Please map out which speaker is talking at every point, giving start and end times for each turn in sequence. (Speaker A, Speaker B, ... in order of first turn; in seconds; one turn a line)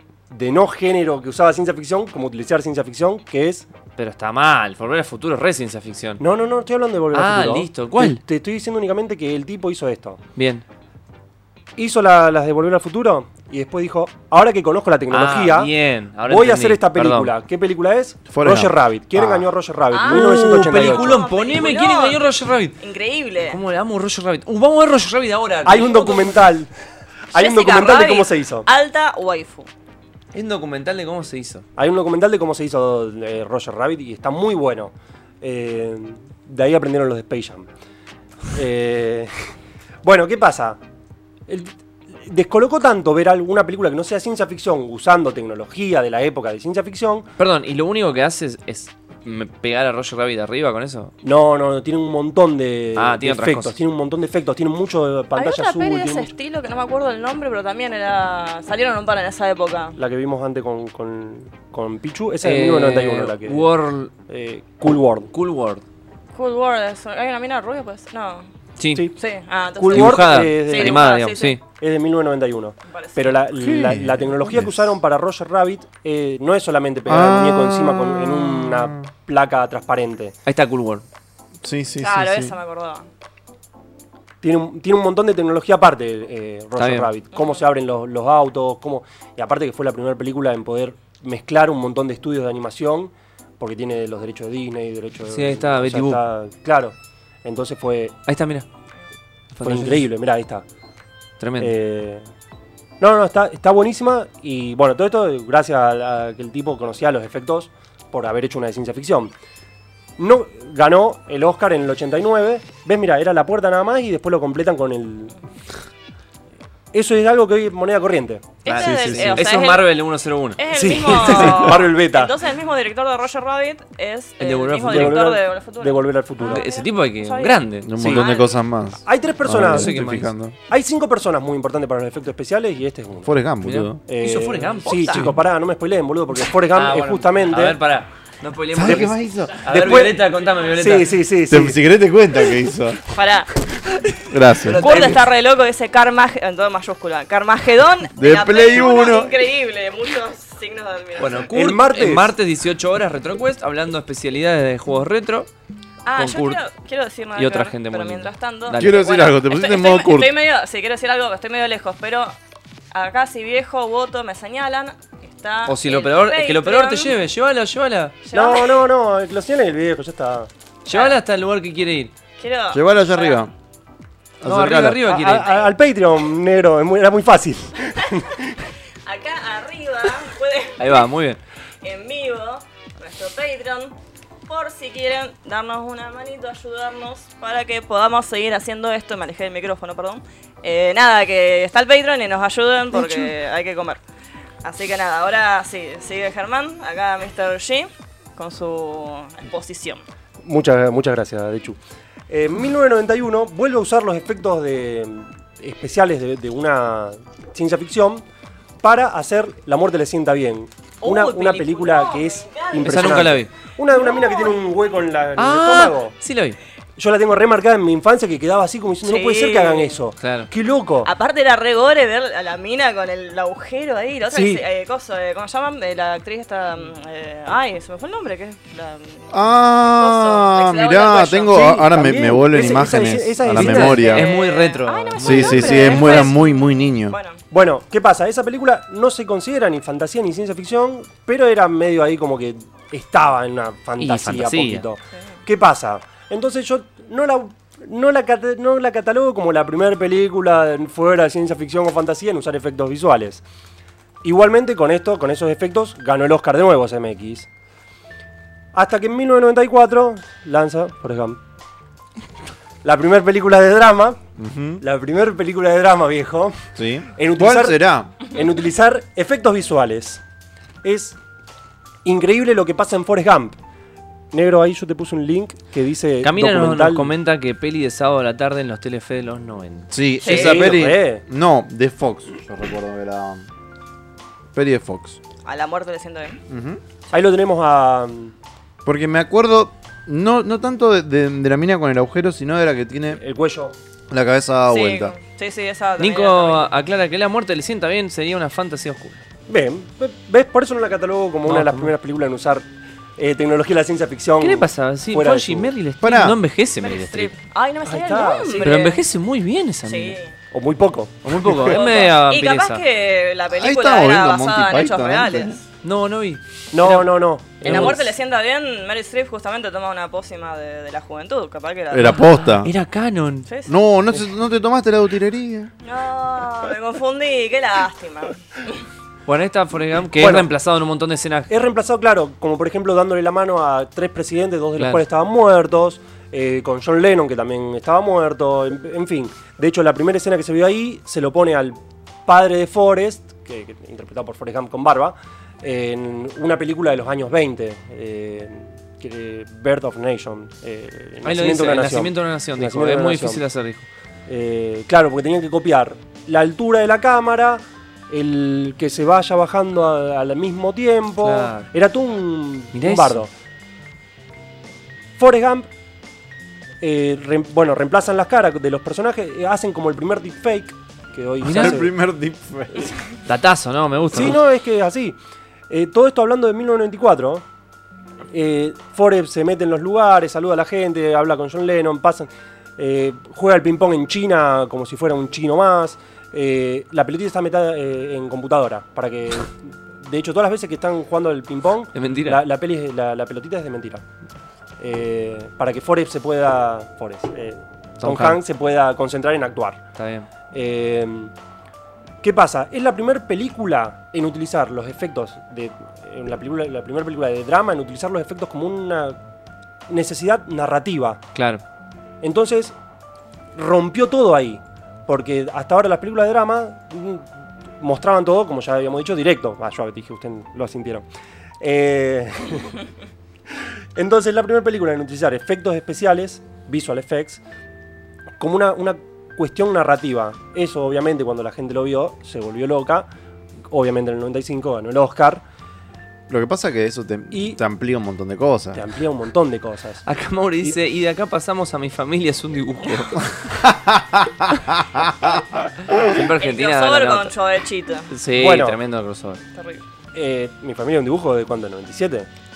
Speaker A: 0.3-3.7
Speaker B: 4.0-6.2
Speaker A: 6.2-10.2
Speaker B: 7.1-8.2
Speaker B: 10.4-10.6
Speaker A: 11.8-15.7
Speaker B: 15.1-17.3
Speaker A: 16.3-21.2
Speaker C: 18.3-19.5
Speaker D: 19.9-22.3
Speaker B: 20.0-22.8
Speaker D: 22.8-23.6
Speaker B: 23.4-26.4
Speaker A: 25.6-26.7
Speaker A: 27.3-28.7
Speaker D: 27.3-29.7
Speaker B: 30.3-31.6
Speaker A: 31.8-37.7
Speaker A: 38.5-39.3
Speaker A: 40.0-40.8
Speaker A: 41.5-47.3
Speaker B: 47.4-51.1
Speaker A: 51.2-56.3
Speaker B: 53.0-53.8
Speaker D: 55.3-60.0
Speaker A: 60.0-63.7
Speaker B: 62.4-64.1
Speaker A: 64.3-65.3
Speaker B: 65.3-65.8
Speaker D: 66.3-68.5
Speaker B: 68.8-69.1
Speaker D: 69.2-71.6
Speaker A: 69.8-71.1
Speaker B: 69.9-71.6
Speaker A: 71.7-80.3
Speaker D: 72.9-73.4
Speaker C: 73.5-75.0
Speaker C: 77.0-79.1
Speaker B: 80.5-81.0
Speaker C: 81.6-82.5
Speaker D: 82.0-83.1
Speaker A: 84.4-98.2
Speaker B: 86.8-87.1
Speaker D: 87.3-87.6
Speaker B: 95.3-96.2
Speaker B: 98.3-98.7
Speaker B: 99.5-100.1
Speaker A: 99.6-100.6
Speaker B: 101.4-101.7
Speaker A: 101.6-102.3
Speaker A: 103.0-109.3
Speaker A: 110.2-115.3
Speaker A: 116.9-118.6
Speaker D: 118.6-120.0
Speaker B: 118.6-120.6
Speaker C: 118.8-119.5
Speaker D: 120.6-128.6
Speaker A: 120.7-122.3
Speaker B: 124.4-125.2
Speaker A: 124.8-126.6
Speaker B: 126.4-127.9
Speaker C: 127.8-130.6
Speaker A: 128.0-128.3
Speaker A: 129.1-130.0
Speaker B: 129.5-130.3
Speaker A: 130.7-133.3
Speaker C: 133.2-134.0
Speaker B: 133.6-135.4
Speaker A: 134.1-137.8
Speaker D: 134.9-135.2
Speaker B: 136.7-141.2
Speaker C: 138.7-139.6
Speaker A: 139.7-141.8
Speaker C: 141.4-143.0
Speaker D: 143.0-151.5
Speaker C: 144.3-144.8
Speaker B: 144.6-145.2
Speaker A: 144.8-145.1
Speaker C: 148.1-149.4
Speaker B: 151.2-155.5
Speaker A: 151.5-152.3
Speaker D: 156.1-162.3
Speaker B: 156.1-156.6
Speaker B: 157.4-159.0
Speaker C: 158.8-160.3
Speaker D: 162.9-167.2
Speaker B: 165.7-168.2
Speaker D: 168.2-168.9
Speaker A: 168.3-170.5
Speaker B: 170.8-172.1
Speaker D: 170.9-171.2
Speaker D: 172.4-173.4
Speaker C: 172.7-173.5
Speaker C: 174.4-175.1
Speaker B: 174.4-175.5
Speaker A: 175.0-178.5
Speaker D: 175.2-175.7
Speaker D: 179.1-181.1
Speaker B: 180.8-181.4
Speaker D: 181.8-183.9
Speaker D: 184.5-194.0
Speaker A: 192.9-193.3
Speaker D: 194.6-200.0
Speaker A: 200.4-208.2
Speaker A: 208.8-216.1
Speaker D: 211.0-213.3
Speaker B: 212.8-213.5
Speaker D: 213.9-214.7
Speaker B: 215.4-216.6
Speaker A: 217.0-221.1
Speaker D: 219.0-220.0
Speaker B: 220.2-220.5
Speaker D: 221.0-231.7
Speaker A: 224.3-224.6
Speaker C: 229.3-234.3
Speaker A: 231.5-234.3
Speaker B: 233.4-236.3
Speaker D: 233.8-237.4
Speaker C: 235.2-237.2
Speaker A: 237.5-253.4
Speaker B: 244.0-244.9
Speaker A: 254.2-257.5
Speaker A: 258.7-261.4
Speaker A: 262.8-264.2
Speaker C: 264.4-264.8
Speaker A: 264.8-270.2
Speaker C: 266.8-268.1
Speaker A: 270.8-271.2
Speaker A: 272.1-273.6
Speaker A: 274.3-277.1
Speaker B: 276.2-280.7
Speaker C: 279.9-283.5
Speaker D: 280.2-280.7
Speaker A: 280.2-281.2
Speaker C: 284.5-285.2
Speaker D: 285.4-286.4
Speaker C: 286.5-286.8
Speaker A: 287.1-288.3
Speaker C: 288.9-293.2
Speaker A: 293.1-293.7
Speaker C: 294.1-295.2
Speaker D: 294.7-296.7
Speaker B: 296.0-299.2
Speaker A: 299.5-305.7
Speaker B: 301.4-301.9
Speaker B: 304.4-307.3
Speaker C: 306.0-306.4
Speaker D: 306.8-309.0
Speaker A: 307.9-308.8
Speaker B: 308.6-310.2
Speaker D: 309.9-310.3
Speaker A: 310.5-311.7
Speaker B: 311.2-312.8
Speaker D: 311.5-315.6
Speaker C: 313.5-315.6
Speaker B: 315.8-317.9
Speaker A: 316.7-318.2
Speaker D: 317.6-322.3
Speaker C: 321.9-322.7
Speaker B: 322.5-323.5
Speaker D: 323.5-323.8
Speaker C: 323.7-325.7
Speaker D: 325.8-328.8
Speaker B: 329.3-331.5
Speaker A: 330.2-330.5
Speaker A: 331.5-353.4
Speaker B: 334.8-335.0
Speaker B: 351.2-353.9
Speaker A: 354.3-363.3
Speaker B: 361.2-361.7
Speaker B: 362.7-363.2
Speaker A: 365.2-365.7
Speaker A: 366.8-371.9
Speaker B: 371.4-371.8
Speaker C: 371.4-373.0
Speaker B: 373.3-374.4
Speaker A: 374.1-375.2
Speaker A: 375.7-377.4
Speaker A: 378.3-394.0
Speaker B: 391.9-392.4
Speaker A: 394.8-399.8
Speaker B: 398.0-398.4
Speaker B: 399.9-400.3
Speaker A: 400.5-401.3
Speaker A: 402.2-409.2
Speaker A: 409.9-411.2
Speaker B: 411.4-411.6
Speaker A: 412.2-412.8
Speaker A: 413.6-417.3
Speaker A: 417.8-421.1
Speaker A: 421.6-422.8
Speaker A: 423.9-427.4
Speaker A: 428.4-433.1
Speaker A: 433.7-435.4
Speaker C: 436.3-438.8
Speaker A: 437.3-437.6
Speaker A: 438.7-440.0
Speaker B: 440.1-443.4
Speaker C: 443.5-445.6
Speaker B: 445.9-447.3
Speaker D: 446.4-448.1
Speaker B: 448.1-449.4
Speaker A: 448.3-448.8
Speaker D: 449.6-449.8
Speaker A: 450.1-452.3